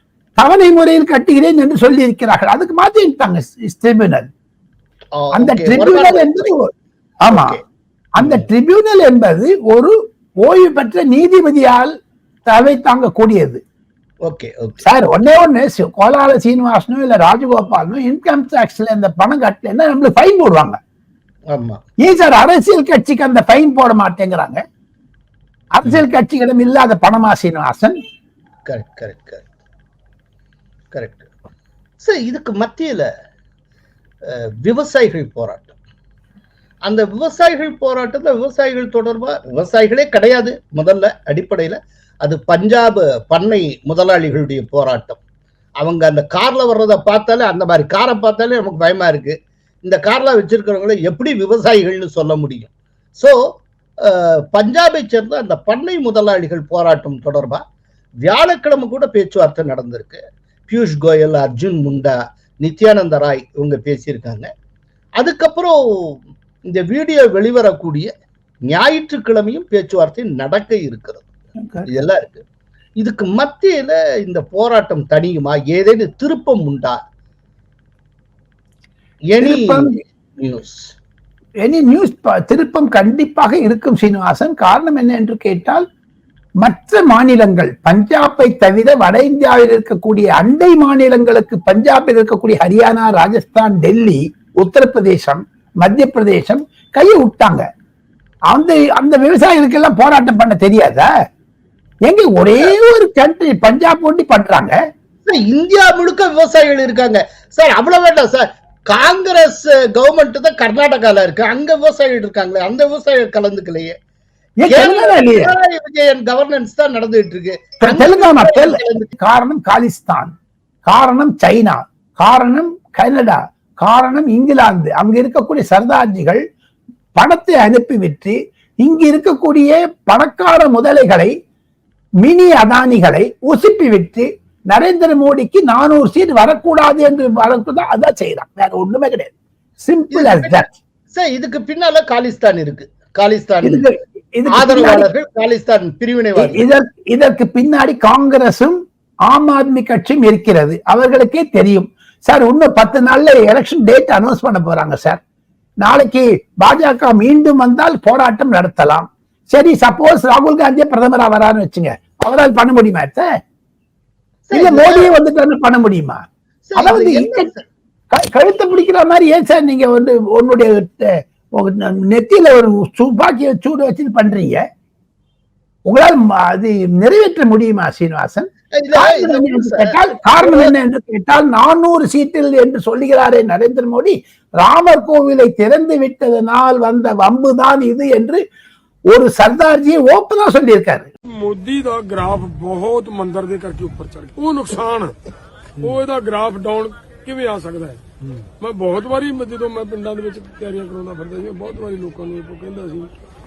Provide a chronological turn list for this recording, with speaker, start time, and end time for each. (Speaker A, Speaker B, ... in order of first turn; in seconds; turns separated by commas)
Speaker A: 0.4-4.3, Speaker B: 5.2-6.3, Speaker A: 5.3-6.7, Speaker A: 7.2-7.6, Speaker B: 7.3-7.6, Speaker A: 8.2-11.9, Speaker B: 8.2-8.5, Speaker A: 12.5-13.6, Speaker B: 14.3-14.8, Speaker A: 14.8-20.8, Speaker B: 21.5-21.8, Speaker A: 22.0-24.6, Speaker A: 25.7-28.0, Speaker B: 28.7-29.5, Speaker B: 30.9-31.3, Speaker B: 32.0-33.1, Speaker B: 34.3-35.8, Speaker B: 36.8-45.2, Speaker B: 45.8-53.4, Speaker B: 54.0-57.6, Speaker B: 58.2-64.5, Speaker B: 65.2-66.2, Speaker B: 66.7-68.1, Speaker B: 68.7-71.3, Speaker A: 71.6-71.9, Speaker B: 71.9-72.4, Speaker B: 73.0-77.0, Speaker B: 79.3-80.9, Speaker A: 79.4-80.0, Speaker A: 81.6-85.9, Speaker A: 86.6-97.6, Speaker A: 98.5-101.1, Speaker A: 102.1-104.8, Speaker B: 105.3-114.0, Speaker A: 114.6-115.5, Speaker B: 114.7-119.1, Speaker A: 117.8-120.3, Speaker A: 120.9-126.4, Speaker A: 127.2-131.3, Speaker A: 132.2-140.7, Speaker B: 140.1-143.9, Speaker A: 143.6-145.1, Speaker B: 144.5-146.7, Speaker A: 146.4-155.2, Speaker A: 155.8-163.3, Speaker B: 164.5-165.1, Speaker A: 164.5-166.2, Speaker B: 166.7-167.6, Speaker A: 166.8-167.5, Speaker A: 168.1-174.6, Speaker A: 175.9-188.4, Speaker B: 178.8-180.7, Speaker A: 189.1-191.1, Speaker C: 191.3-195.2, Speaker C: 195.8-198.1, Speaker C: 198.6-203.1